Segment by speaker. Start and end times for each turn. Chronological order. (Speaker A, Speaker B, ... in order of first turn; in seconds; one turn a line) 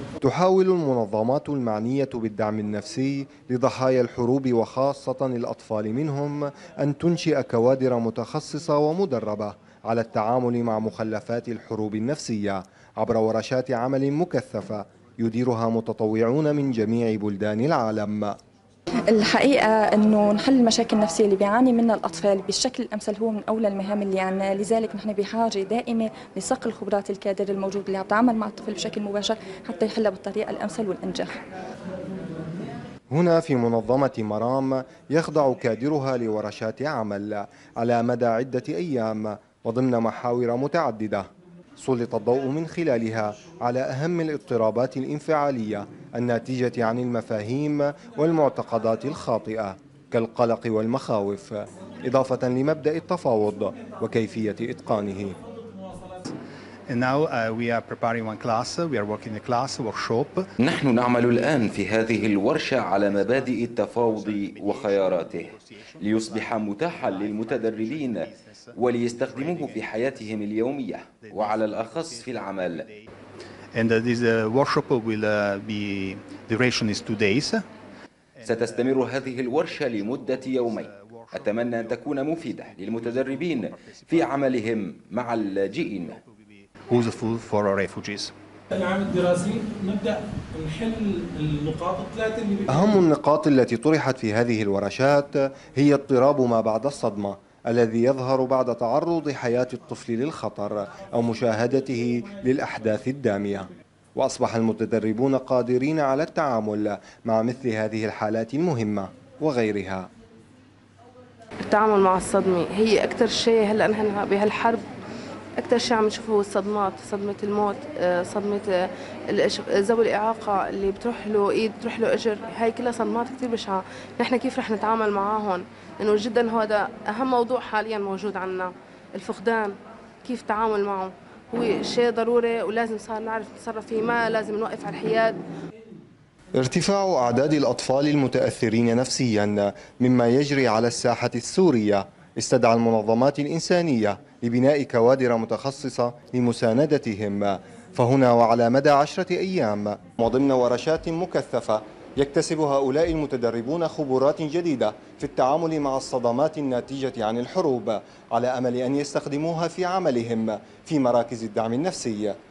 Speaker A: 0.2-18.3
Speaker B: 19.1-31.4
Speaker A: 33.1-41.2
Speaker A: 41.8-55.4
Speaker C: 56.9-60.5
Speaker D: 60.6-72.8
Speaker C: 62.1-70.6
Speaker C: 71.2-73.1
Speaker C: 73.7-77.6
Speaker C: 78.4-84.7
Speaker D: 78.4-86.2
Speaker C: 85.4-88.3
Speaker E: 88.7-93.0
Speaker A: 92.7-110.1
Speaker F: 111.6-114.8
Speaker F: 115.6-135.4
Speaker A: 136.5-162.3